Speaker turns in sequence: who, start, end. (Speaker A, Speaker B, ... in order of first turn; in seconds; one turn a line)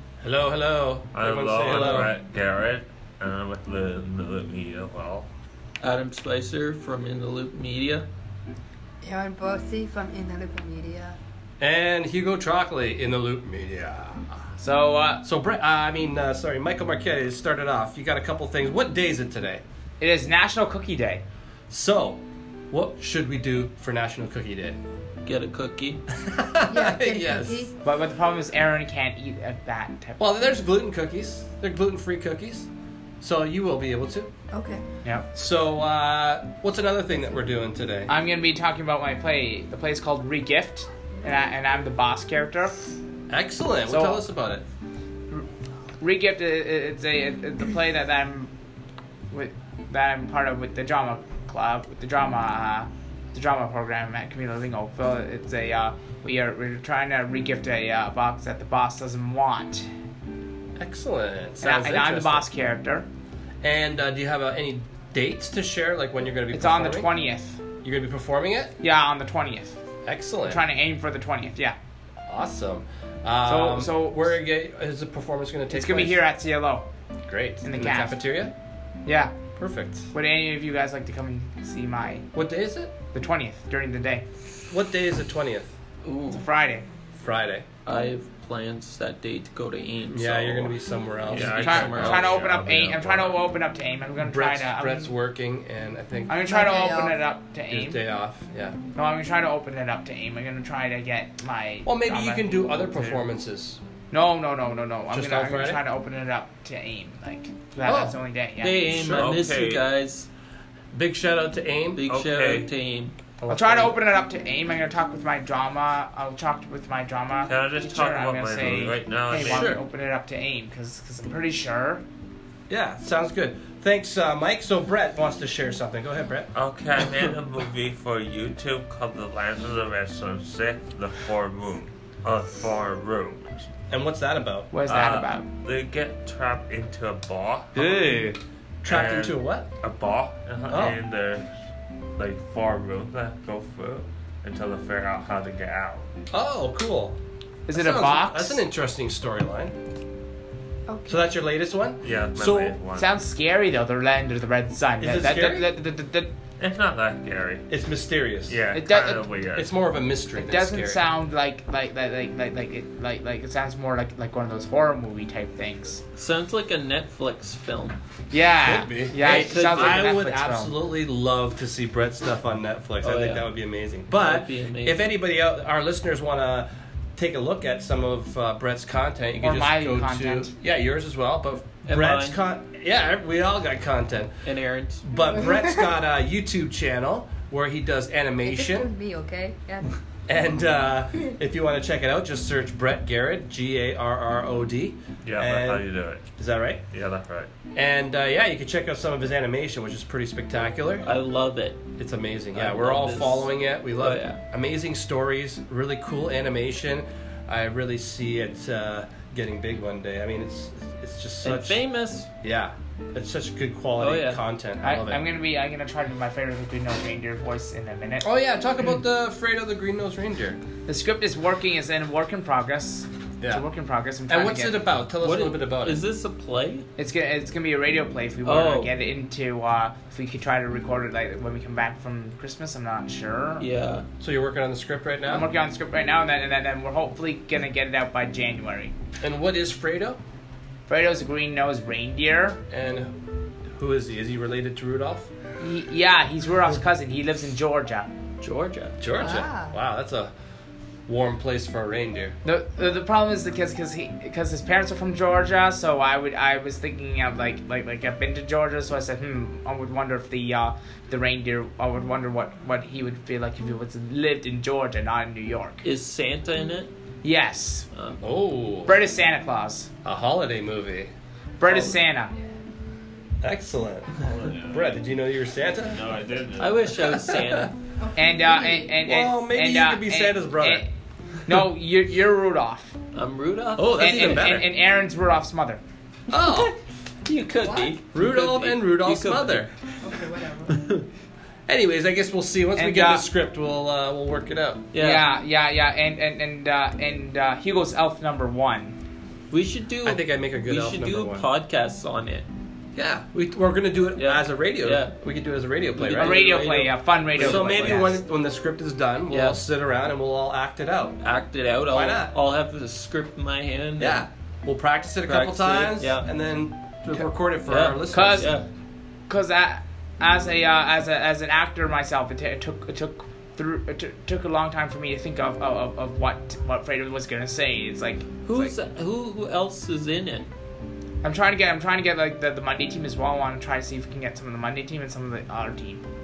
Speaker A: 0.2-2.1
Speaker B: 1.1-5.3
Speaker C: 1.7-2.0
Speaker C: 5.8-8.1
Speaker D: 9.0-11.2
Speaker A: 11.6-14.4
Speaker E: 14.6-15.2
Speaker A: 15.2-19.6
Speaker E: 20.0-21.2
Speaker A: 21.7-24.8
Speaker C: 25.2-26.0
Speaker A: 26.1-27.7
Speaker D: 26.6-27.7
Speaker E: 27.8-30.3
Speaker A: 30.2-32.7
Speaker A: 33.2-34.3
Speaker D: 34.5-34.8
Speaker A: 35.3-38.1
Speaker E: 38.1-42.8
Speaker A: 43.3-44.6
Speaker E: 43.9-44.2
Speaker E: 46.0-48.5
Speaker E: 49.3-59.9
Speaker A: 60.8-62.5
Speaker E: 61.6-63.0
Speaker A: 63.6-67.1
Speaker E: 66.5-67.6
Speaker A: 67.8-68.7
Speaker E: 68.8-69.8
Speaker A: 70.0-70.6
Speaker E: 70.5-71.8
Speaker A: 72.3-76.2
Speaker E: 73.4-74.4
Speaker E: 75.7-76.8
Speaker A: 77.3-78.5
Speaker E: 77.6-78.2
Speaker E: 79.0-79.3
Speaker A: 79.5-80.1
Speaker E: 80.1-82.3
Speaker A: 82.3-82.9
Speaker E: 83.1-84.2
Speaker A: 84.7-85.7
Speaker C: 86.0-86.4
Speaker E: 86.3-86.8
Speaker A: 87.1-87.7
Speaker C: 87.8-92.4
Speaker A: 90.1-92.0
Speaker B: 91.3-93.4
Speaker E: 91.5-95.1
Speaker A: 94.2-96.4
Speaker E: 96.3-98.0
Speaker D: 96.4-97.2
Speaker A: 97.7-98.8
Speaker E: 98.9-103.2
Speaker A: 101.8-103.8
Speaker E: 104.1-108.9
Speaker A: 105.1-105.8
Speaker A: 107.8-108.2
Speaker C: 108.6-110.3
Speaker A: 108.9-109.3
Speaker B: 109.1-109.8
Speaker A: 110.9-112.0
Speaker C: 112.0-113.1
Speaker B: 112.1-112.7
Speaker A: 113.4-113.9
Speaker E: 113.5-122.0
Speaker B: 117.4-119.8
Speaker A: 119.3-119.8
Speaker A: 122.7-126.5
Speaker B: 126.5-133.7
Speaker A: 133.9-134.7
Speaker E: 134.7-135.4
Speaker B: 134.8-138.2
Speaker E: 137.7-138.4
Speaker A: 138.8-139.7
Speaker B: 138.8-141.5
Speaker A: 140.7-141.0
Speaker B: 142.2-146.1
Speaker A: 146.3-147.2
Speaker E: 147.7-148.6
Speaker A: 147.7-149.7
Speaker D: 150.9-151.3
Speaker A: 151.1-152.8
Speaker B: 152.0-153.1
Speaker E: 152.9-156.3
Speaker A: 155.0-155.7
Speaker B: 156.6-157.7
Speaker A: 157.7-158.6
Speaker B: 158.5-159.7
Speaker E: 158.7-159.3
Speaker A: 159.5-161.0
Speaker E: 160.3-166.0
Speaker C: 166.2-168.0
Speaker E: 168.3-170.7
Speaker A: 168.6-184.4
Speaker C: 169.2-170.1
Speaker C: 173.0-173.4
Speaker C: 174.1-175.0
Speaker E: 179.4-180.5
Speaker C: 181.8-182.4
Speaker C: 184.4-185.0
Speaker A: 185.0-188.9
Speaker D: 188.4-190.0
Speaker A: 190.3-195.8
Speaker B: 195.2-196.2
Speaker A: 196.4-196.8
Speaker B: 196.9-197.5
Speaker A: 197.7-201.1
Speaker C: 201.0-201.8
Speaker A: 202.0-211.8
Speaker C: 202.5-204.4
Speaker C: 211.4-212.3
Speaker A: 212.4-215.2
Speaker C: 214.0-214.4
Speaker E: 214.8-218.3
Speaker A: 218.2-220.6
Speaker E: 220.9-224.8
Speaker A: 223.4-223.7
Speaker A: 224.3-226.0
Speaker C: 225.2-226.8
Speaker E: 227.0-233.7
Speaker C: 228.4-228.9
Speaker C: 233.6-234.1
Speaker A: 234.2-235.5
Speaker E: 235.3-238.9
Speaker A: 239.2-240.2
Speaker E: 240.9-242.6
Speaker A: 242.7-243.1
Speaker A: 243.8-245.3
Speaker E: 245.6-248.1
Speaker C: 248.4-249.0
Speaker A: 249.0-250.3
Speaker D: 249.2-249.7
Speaker A: 251.1-252.3
Speaker E: 252.4-265.9
Speaker C: 265.8-266.9
Speaker E: 267.2-267.9
Speaker C: 267.9-268.2
Speaker A: 268.2-269.0
Speaker E: 268.9-269.9
Speaker A: 270.0-271.1
Speaker E: 271.6-272.3
Speaker A: 271.6-272.0
Speaker A: 273.4-276.0
Speaker B: 274.2-274.9
Speaker B: 275.9-277.0
Speaker C: 276.6-277.7
Speaker A: 277.1-277.6
Speaker D: 278.0-278.9
Speaker E: 278.1-280.9
Speaker A: 279.0-280.8
Speaker E: 281.4-282.9
Speaker C: 283.1-284.6
Speaker A: 283.8-284.7
Speaker E: 283.9-285.8
Speaker A: 286.3-286.7
Speaker C: 286.3-286.7
Speaker C: 287.2-289.7
Speaker A: 287.6-289.7
Speaker D: 290.0-290.8
Speaker C: 290.7-291.1
Speaker A: 291.7-294.9
Speaker E: 292.8-293.2
Speaker C: 294.9-295.3
Speaker E: 294.9-299.0
Speaker C: 299.5-302.4
Speaker A: 300.0-301.4
Speaker A: 302.9-306.4
Speaker C: 304.1-305.1
Speaker C: 305.9-308.1
Speaker E: 306.1-308.2
Speaker A: 307.4-311.2
Speaker C: 309.3-309.6
Speaker C: 311.2-314.2
Speaker A: 311.9-312.3
Speaker A: 314.0-318.5
Speaker C: 315.3-316.3
Speaker C: 317.1-318.6
Speaker E: 318.1-318.5
Speaker E: 319.3-328.8
Speaker C: 328.4-330.5
Speaker E: 331.2-336.0